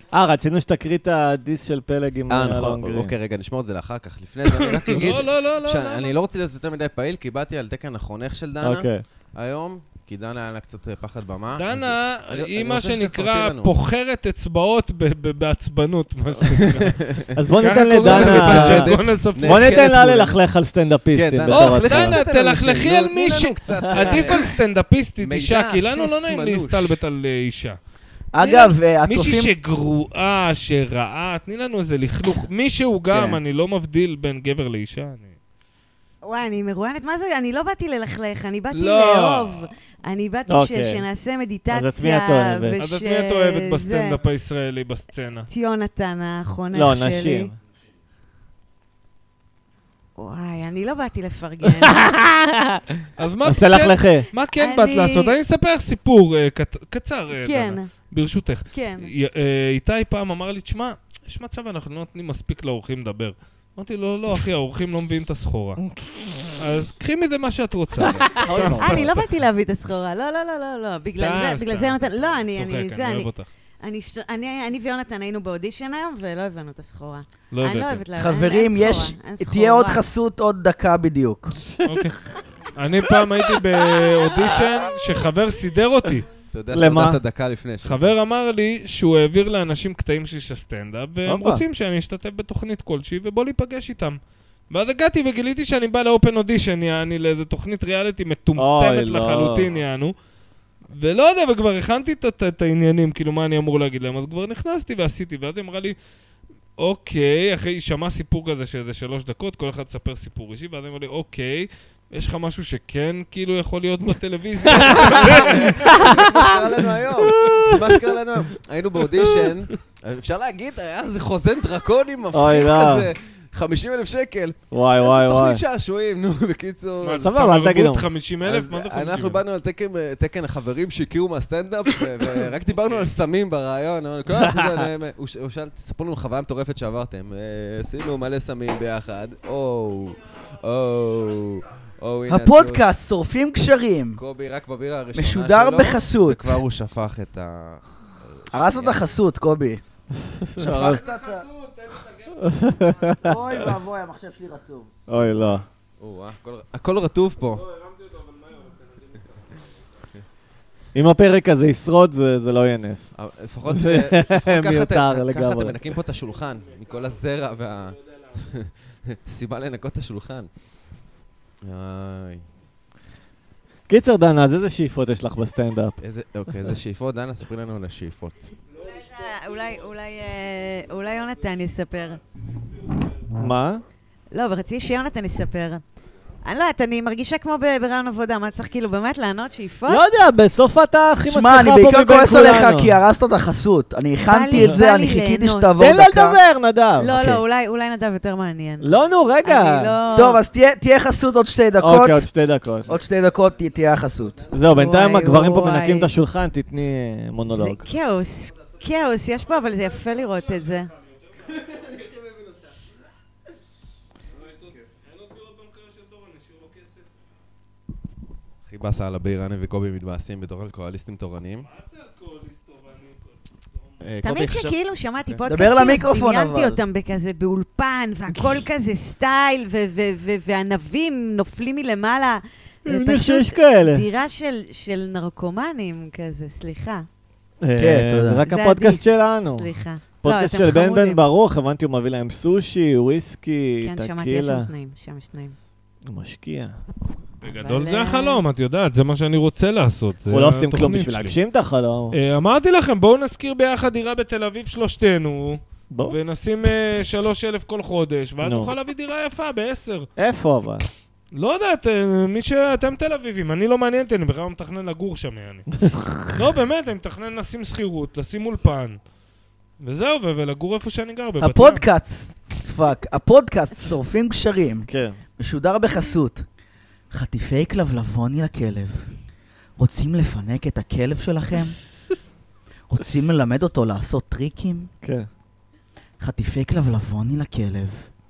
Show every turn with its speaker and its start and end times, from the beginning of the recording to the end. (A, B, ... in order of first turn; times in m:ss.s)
0:00.1-0:03.1 A
0:02.3-0:13.7 B
0:04.4-0:06.1 C
0:08.6-0:09.0 A
0:11.6-0:20.1 C
0:16.4-0:17.3 B
0:17.3-0:22.2 A
0:17.8-0:20.4 B
0:21.1-0:24.6 B
0:21.5-0:27.8 C
0:23.9-0:24.2 A
0:25.2-0:27.0 B
0:28.3-0:29.5 D
0:28.4-0:35.3 C
0:33.1-0:33.4 D
0:36.2-0:44.2 E
0:38.7-0:39.7 C
0:40.5-0:41.0 A
0:41.7-0:42.8 A
0:42.8-0:45.5 C
0:45.5-0:47.5 E
0:46.7-0:47.5 A
0:50.2-0:52.1 E
0:51.8-0:54.3 A
0:53.2-1:05.8 C
0:54.6-0:55.3 E
0:57.4-0:57.9 E
0:58.7-0:59.1 E
1:05.8-1:06.5 A
1:06.6-1:09.2 C
1:08.1-1:09.1 A
1:08.4-1:13.3 E
1:11.0-1:13.5 C
1:13.8-1:20.0 E
1:17.5-1:18.1 C
1:18.1-1:21.6 D
1:21.6-1:22.0 A
1:21.8-1:22.2 C
1:22.8-1:26.3 C
1:26.5-1:28.1 B
1:26.7-1:27.2 A
1:27.8-1:34.2 C
1:31.2-1:31.6 A
1:34.7-1:40.1 C
1:38.6-1:39.7 A
1:40.9-1:46.0 C
1:46.8-1:56.1 C
1:54.6-1:56.7 A
1:54.8-2:07.3 B
1:57.3-1:58.0 A
2:02.3-2:03.1 A
2:04.7-2:05.6 A
2:07.0-2:09.4 C
2:07.2-2:08.1 A
2:08.4-2:22.8 B
2:14.3-2:14.8 A
2:22.3-2:24.2 D
2:24.2-2:29.1 B
2:25.1-2:26.6 D
2:28.5-2:29.8 D
2:30.2-2:31.0 A
2:30.6-2:31.5 D
2:30.6-2:33.2 C
2:32.4-2:33.7 A
2:33.2-2:34.9 D
2:35.1-2:35.6 A
2:36.0-2:37.7 B
2:37.7-2:39.2 C
2:40.9-2:43.1 A
2:43.2-2:50.5 B
2:43.7-2:45.9 A
2:51.6-2:52.4 B
2:53.9-2:56.0 A
2:56.0-2:58.6 B
2:58.8-3:02.2 E
3:03.4-3:03.8 A
3:04.3-3:05.8 E
3:06.4-3:10.0 E
3:09.9-3:13.0 A
3:11.3-3:16.4 D
3:14.3-3:15.7 E
3:15.8-3:17.4 A
3:17.0-3:20.4 E
3:18.8-3:19.9 A
3:20.1-3:22.2 D
3:21.8-3:22.9 A
3:22.9-3:24.4 D
3:24.5-3:27.9 A
3:24.7-3:26.1 E
3:27.5-3:30.9 E
3:34.8-3:37.0 C
3:38.6-3:41.7 B
3:41.7-3:43.4 C
3:44.0-3:45.4 B
3:44.2-3:57.1 E
3:45.5-3:46.8 D
3:52.8-3:54.0 A
3:57.6-3:59.7 A
3:57.8-3:58.4 D
3:58.4-4:01.2 E
4:00.2-4:04.7 A
4:03.8-4:05.6 E
4:06.0-4:06.8 A
4:07.4-4:11.4 C
4:07.6-4:08.4 E
4:10.3-4:12.1 A
4:12.1-4:20.1 C
4:15.9-4:16.2 A
4:18.4-4:18.7 A
4:20.2-4:20.8 A
4:21.3-4:25.7 C
4:25.7-4:26.4 A
4:26.3-4:29.0 C
4:29.8-4:31.8 C
4:31.4-4:36.4 D
4:34.9-4:35.2 A
4:37.1-4:39.1 D
4:39.8-4:41.8 D
4:42.9-4:44.9 D
4:45.0-4:45.3 A
4:46.2-4:48.1 D